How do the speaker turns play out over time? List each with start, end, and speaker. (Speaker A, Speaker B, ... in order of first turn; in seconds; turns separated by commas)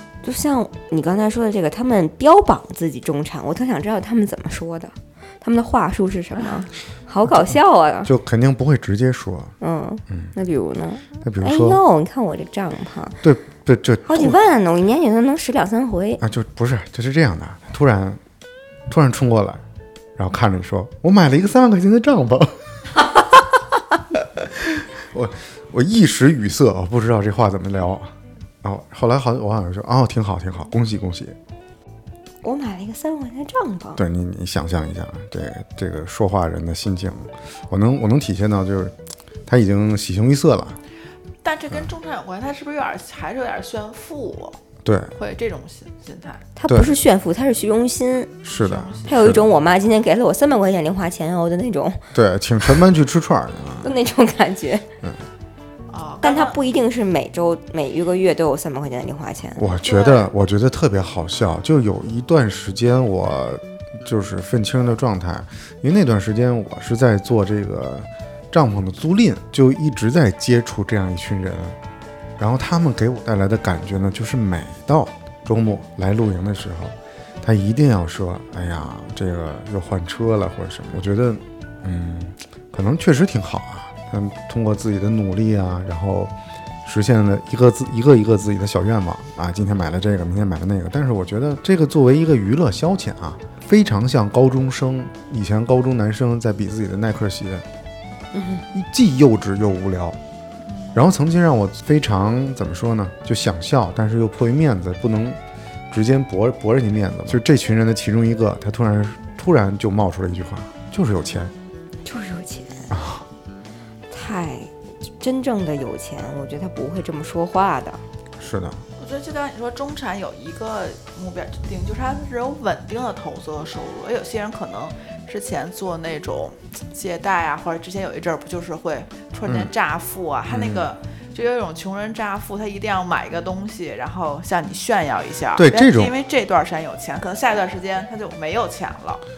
Speaker A: 0.2-8.1, Speaker B: 8.0-9.5, Speaker A: 9.6-13.2, Speaker B: 11.2-11.8, Speaker B: 13.2-14.4, Speaker A: 14.1-16.2, Speaker B: 16.2-18.2, Speaker B: 18.9-19.6, Speaker B: 20.1-22.6, Speaker B: 24.1-31.4, Speaker A: 32.4-34.0, Speaker B: 34.0-40.8, Speaker C: 41.4-44.6, Speaker B: 44.8-45.1, Speaker C: 45.1-46.4, Speaker A: 46.5-48.4, Speaker B: 46.7-46.9, Speaker B: 48.4-49.5, Speaker C: 48.5-49.3, Speaker A: 49.1-52.0, Speaker B: 52.1-53.9, Speaker A: 53.8-54.9, Speaker C: 55.9-56.6, Speaker A: 56.2-59.6, Speaker B: 59.6-71.8, Speaker C: 59.8-60.3, Speaker B: 72.4-86.3, Speaker B: 86.8-97.6, Speaker A: 98.3-98.6, Speaker B: 98.7-100.2, Speaker C: 100.7-101.0, Speaker B: 100.9-105.4, Speaker B: 105.9-111.5, Speaker A: 112.0-112.9, Speaker B: 112.9-113.2, Speaker A: 114.1-118.0, Speaker B: 118.4-118.8, Speaker C: 119.0-139.2, Speaker B: 130.5-130.9, Speaker B: 135.6-136.1